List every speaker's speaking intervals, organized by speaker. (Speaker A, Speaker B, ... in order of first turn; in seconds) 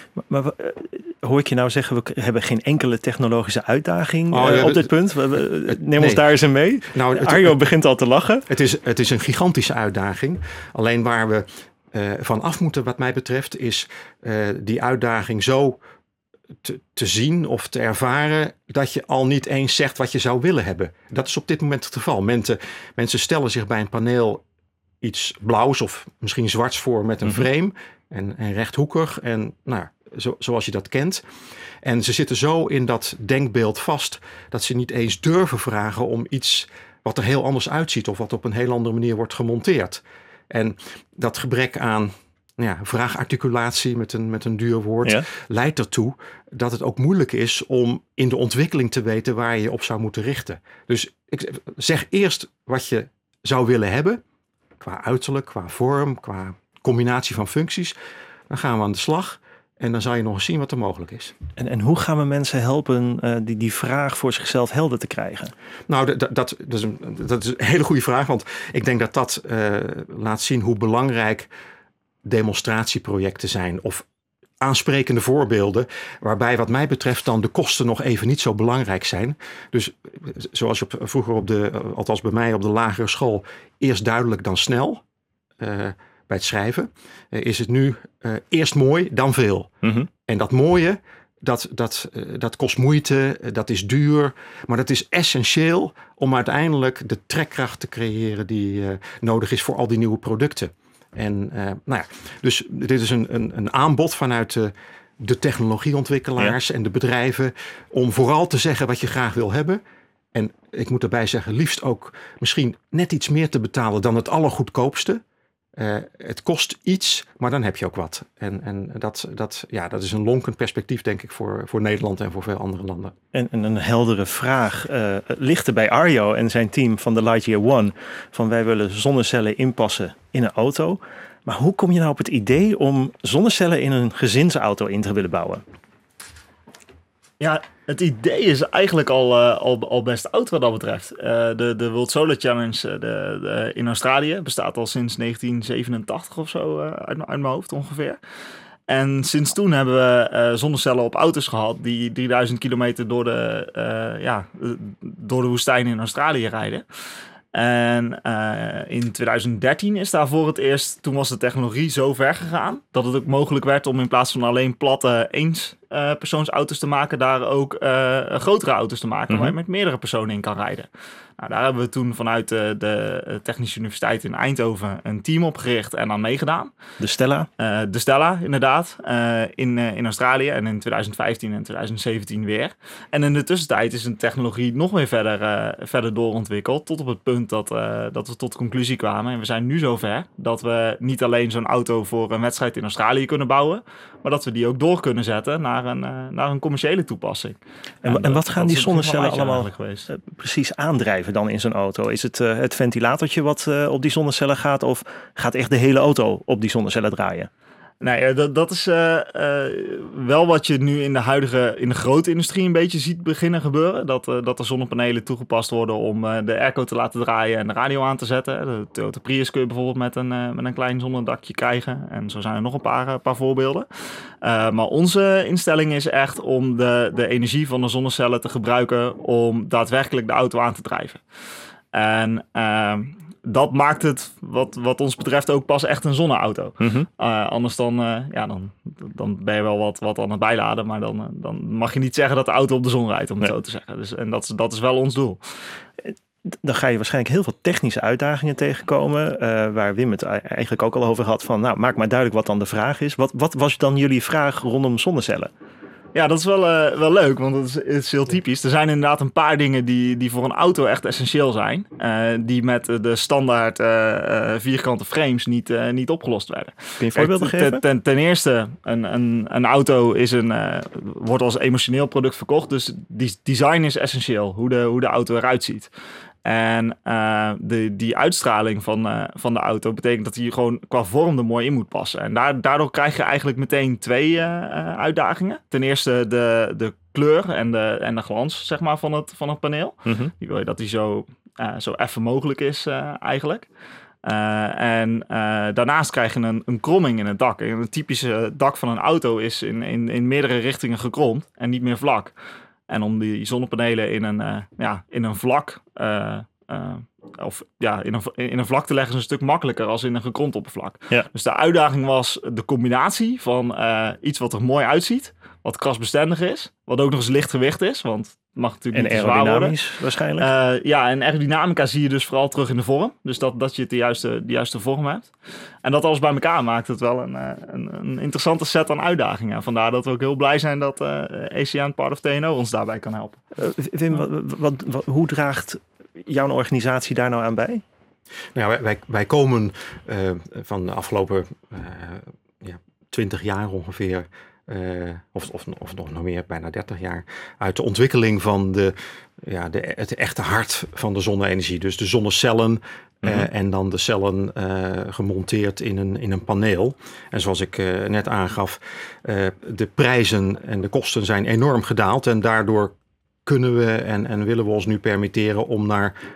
Speaker A: 0.2-8.4, 61.6-65.5, 89.8-90.1, 123.3-135.6, 169.3-169.5, 177.0-177.5, 198.0-207.5, 236.8-237.1, 246.1-255.5, 267.0-267.8, 290.1-290.3, 318.9-320.5, 333.6-337.8
Speaker B: 4.3-4.9, 5.7-6.2, 6.9-7.5, 8.5-15.8, 16.6-24.4, 25.0-31.2, 31.8-54.2, 54.8-57.9, 58.5-61.3, 65.9-71.5, 72.2-74.0, 74.6-85.0, 85.6-89.7, 90.2-109.8, 110.3-115.2, 115.8-123.1, 338.5-362.9, 363.4-366.1
Speaker C: 137.4-148.2, 148.9-156.8, 157.5-170.9, 171.4-176.7, 177.6-200.1, 208.0-223.9, 224.4-231.2, 231.9-245.4, 256.1-275.9, 276.4-293.7, 294.2-302.3, 302.9-319.8, 320.4-325.3, 325.8-333.4